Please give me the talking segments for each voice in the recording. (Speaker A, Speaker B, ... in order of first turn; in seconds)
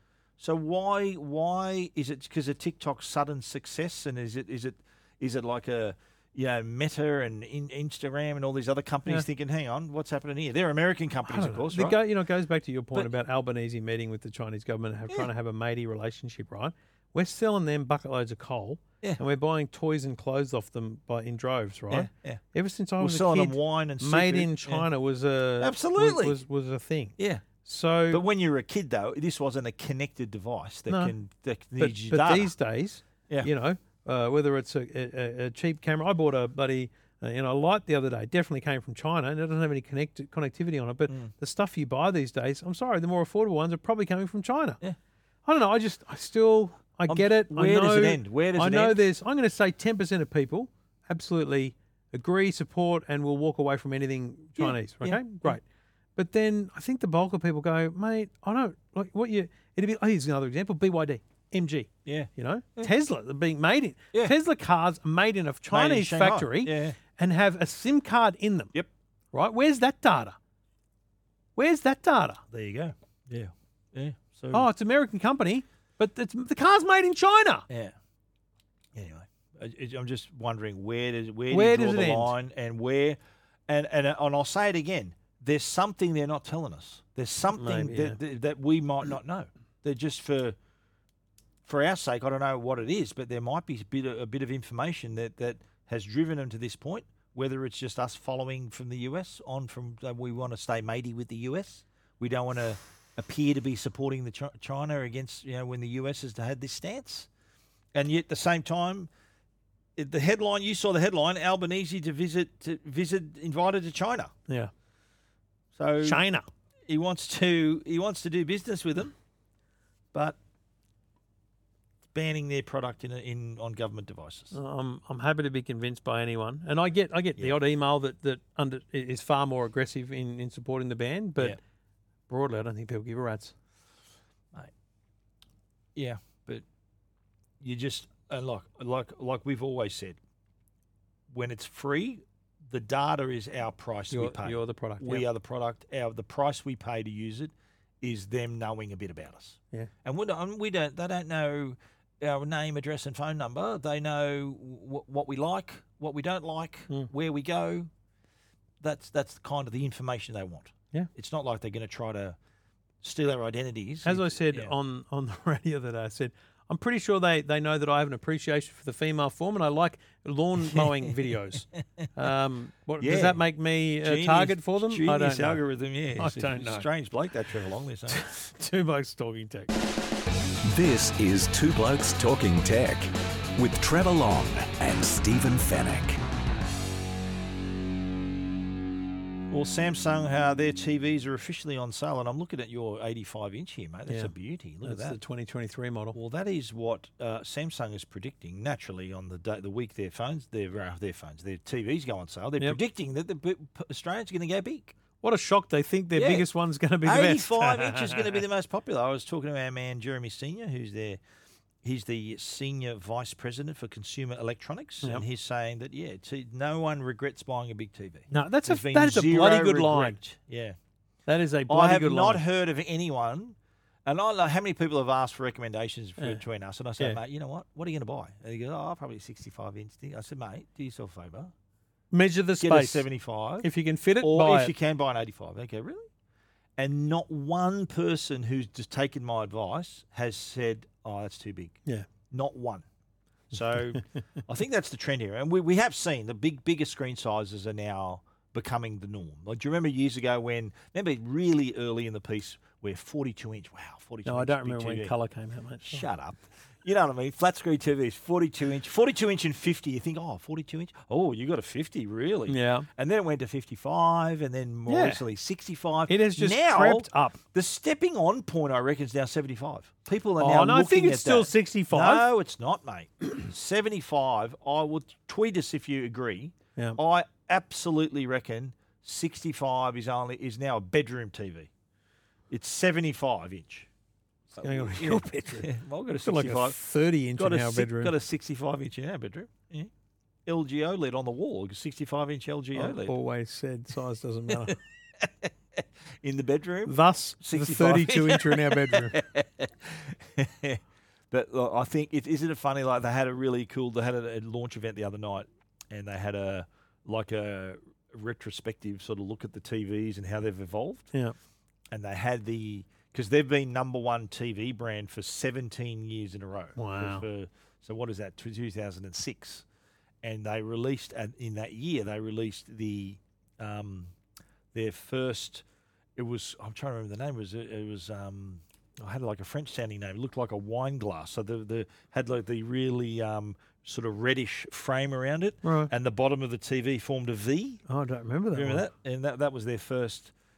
Speaker A: 0.4-12.0, 21.9-22.4, 23.0-24.9, 25.6-26.4, 27.2-27.4, 28.1-32.5, 41.1-41.3, 47.1-49.0, 54.6-55.6, 62.1-62.9, 65.7-67.0, 72.5-74.7, 77.7-78.0, 78.9-90.6, 91.7-107.3, 107.9-109.1, 110.0-114.3, 115.7-116.2, 116.9-119.1, 120.1-120.4, 122.1-124.6, 135.9-136.7, 137.6-140.2, 141.3-157.9, 158.8-162.4, 163.0-164.7, 170.7-171.1, 173.0-173.4, 174.0-178.2, 189.5-195.2, 196.2-204.9, 206.2-206.5, 207.0-211.2, 211.8-220.8, 221.7-231.5, 232.6-233.7, 234.2-236.1, 236.8-241.8, 242.3-242.9, 243.5-255.1, 255.8-281.7, 282.5-283.9, 284.5-286.8, 287.4-289.9, 290.5-293.1, 294.5-311.1, 311.9-319.6, 320.2-324.1, 324.7-325.6, 326.2-337.8, 338.5-340.3
Speaker B: 11.3-28.2, 30.9-31.1, 31.8-44.8, 45.5-55.6, 56.2-68.7, 69.3-70.4, 71.6-72.4, 74.5-77.7, 81.5-82.3, 87.5-88.2, 116.0-116.5, 124.5-131.6, 132.3-133.6, 144.1-145.3, 164.1-175.6, 176.2-176.9, 178.1-179.7, 194.8-196.2, 205.2-208.4, 218.3-220.2, 221.3-222.4, 232.1-233.1, 233.6-234.7, 254.2-256.1, 262.5-262.9, 264.9-265.2, 266.1-267.4, 270.4-272.2, 284.6-288.1, 292.8-294.8, 296.9-299.2, 316.8-317.3, 335.6-335.9, 337.9-338.9
Speaker C: 180.7-186.2